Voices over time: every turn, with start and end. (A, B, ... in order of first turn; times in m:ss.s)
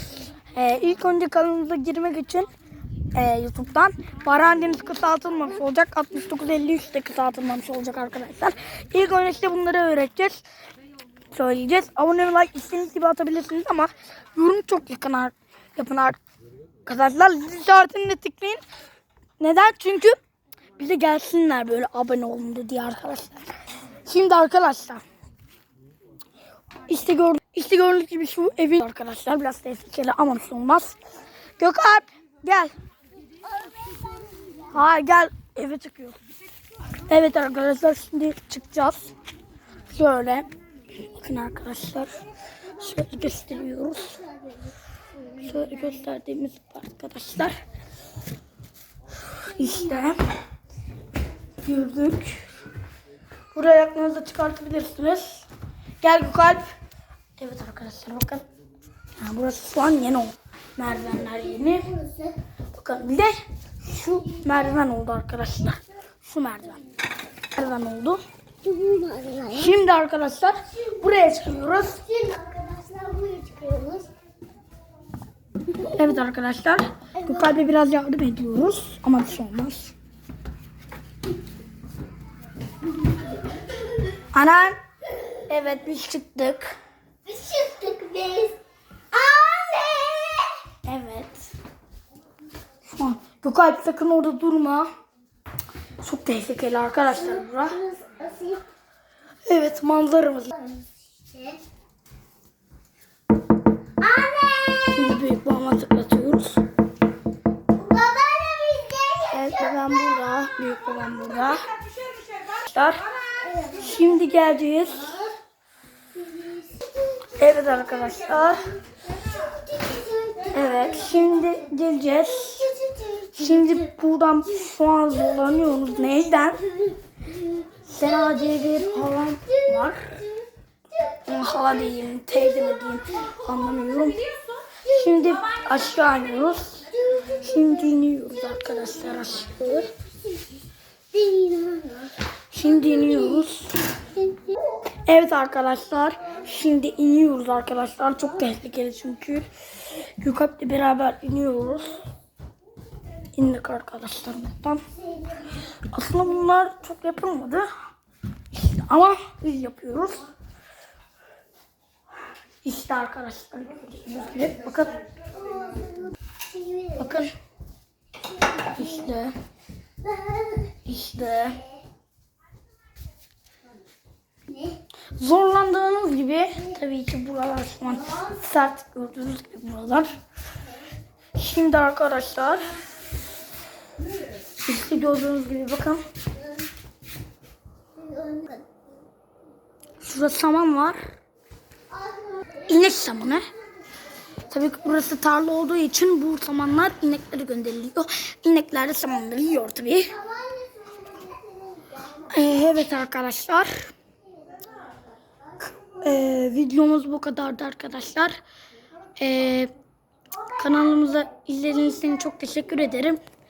0:00.5-0:02.5 A
0:03.1-0:10.4 A
0:11.3-0:16.2 A
0:16.8-0:18.6 A
0:19.4-0:20.2 A
0:20.8-0:25.0 A
0:26.9-0:31.0 A
0:31.6-0:32.7 A
0:34.7-0:36.2 A
0:37.0-0:39.1 A
0:39.9-0:40.5 A
0:41.0-0:42.1 A
0:42.8-0:44.2 A
0:45.4-0:47.6 A
0:49.4-0:50.2 A
0:51.6-0:52.4 A
0:53.5-0:55.4 A
0:56.0-0:56.7 A
0:57.4-0:58.4 A
0:59.2-1:02.0 A
1:02.0-1:02.3 B
1:02.7-1:06.8 A
1:07.5-1:08.2 A
1:08.6-1:09.6 B
1:09.5-1:12.2 A
1:12.1-1:14.1 B
1:15.8-1:19.9 A
1:24.3-1:24.8 A
1:25.5-1:26.7 A
1:27.3-1:28.6 B
1:29.1-1:30.6 B
1:30.8-1:31.4 A
1:32.8-1:34.9 A
1:36.0-1:37.8 A
1:37.8-1:38.6 B
1:39.4-1:40.6 A
1:41.2-1:41.6 B
1:44.0-1:45.0 B
1:44.8-1:46.6 A
1:47.7-1:49.4 B
1:49.3-1:51.6 A
1:52.5-1:53.0 A
1:53.6-1:55.2 A
1:56.2-1:57.0 B
1:57.4-1:58.7 A
1:59.1-2:00.6 B
2:00.5-2:02.7 A
2:02.6-2:03.3 B
2:03.3-2:06.7 A
2:07.8-2:10.2 A
2:11.1-2:14.2 A
2:14.8-2:19.9 A
2:21.1-2:22.2 B
2:22.5-2:23.8 A
2:25.0-2:32.0 A
2:33.3-2:34.8 A
2:35.9-2:37.7 A
2:38.5-2:40.3 A
2:42.6-2:45.0 A
2:45.6-2:46.9 B
2:46.9-2:47.3 A
2:48.5-2:49.3 A
2:50.8-2:51.6 A
2:55.2-3:00.1 A
3:01.4-3:02.6 A
3:04.6-3:06.0 A
3:08.0-3:08.6 B
3:10.0-3:11.1 A
3:12.1-3:12.5 B
3:12.6-3:13.5 A
3:14.5-3:20.2 A
3:20.3-3:22.0 B
3:22.3-3:23.9 A
3:25.9-3:28.4 A
3:29.2-3:29.7 A
3:30.6-3:33.2 A